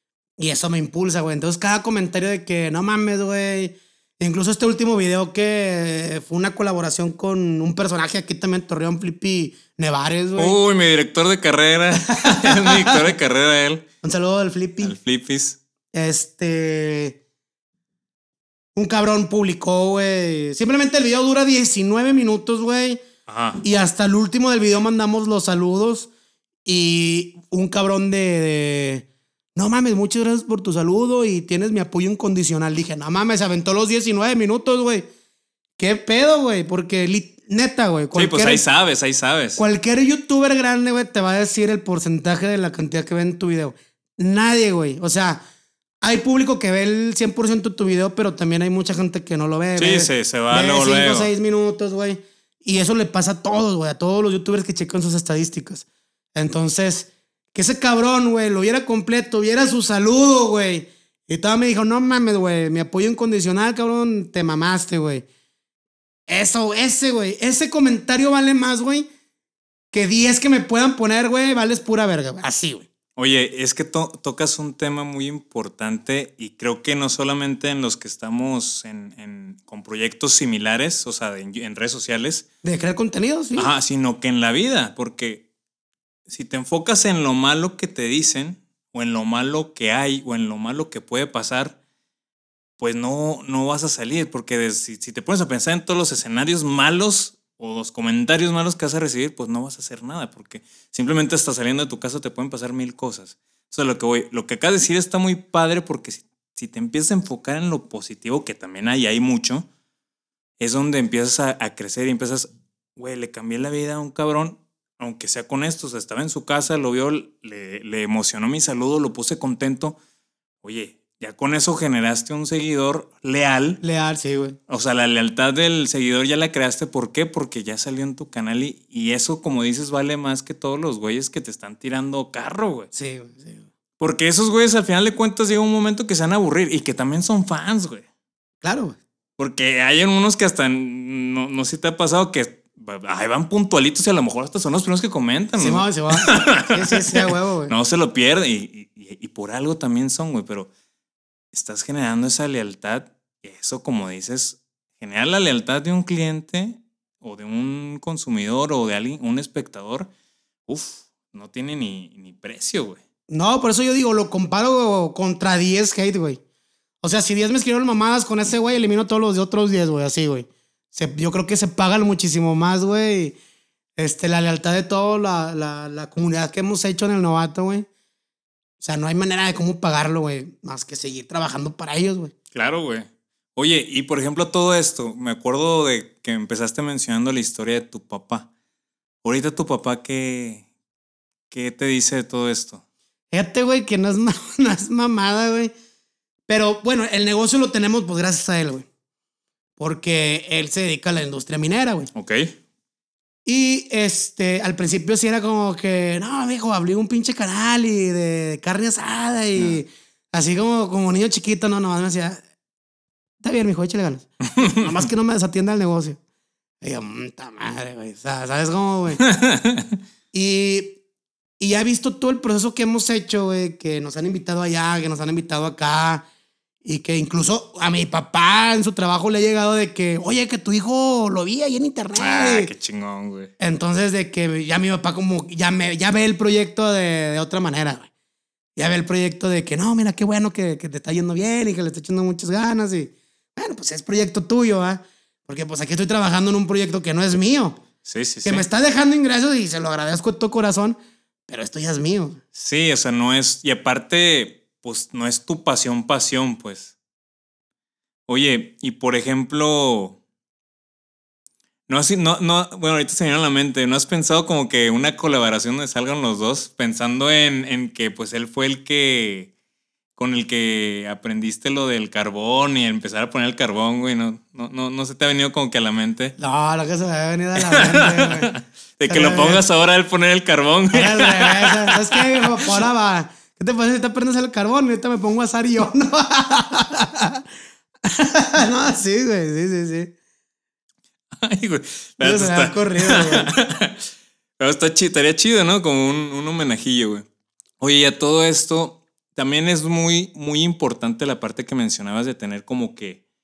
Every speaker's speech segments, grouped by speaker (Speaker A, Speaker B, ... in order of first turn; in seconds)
Speaker A: 0.4-10.6, 12.1-13.0, 14.0-15.0, 15.9-17.2, 18.8-23.0, 23.6-26.1, 26.6-35.1, 35.8-38.6, 39.6-45.4, 46.0-65.3, 66.3-69.1, 69.9-72.9, 82.6-83.7, 123.8-124.6, 132.9-133.7, 138.6-139.0, 145.6-147.7, 163.3-166.4, 167.0-173.4, 174.0-177.9, 178.8-182.3, 193.3-195.7, 196.5-198.9, 199.8-202.1, 203.5-212.4, 213.4-216.2, 216.8-219.2, 220.3-221.0, 221.6-226.2, 226.8-232.7, 233.6-238.1, 238.8-247.8, 248.4-251.0, 251.5-252.4, 276.4-278.5, 279.1-279.6, 280.9-287.4, 288.0-290.1, 292.2-293.5
Speaker B: 10.4-13.9, 14.8-15.6, 23.3-23.6, 38.1-39.6, 49.8-51.3, 73.2-82.5, 83.6-85.5, 86.3-91.8, 92.8-109.7, 110.6-120.0, 120.6-123.8, 124.7-132.9, 134.0-138.1, 139.4-150.7, 151.5-160.1, 160.7-163.0, 182.5-188.5, 189.2-190.7, 191.5-192.8, 202.1-202.6, 219.2-220.0, 232.2-233.5, 248.1-248.7, 252.6-256.9, 258.3-260.2, 261.9-269.5, 270.2-276.4, 277.6-282.8, 291.4-294.0, 294.6-297.3, 297.8-303.2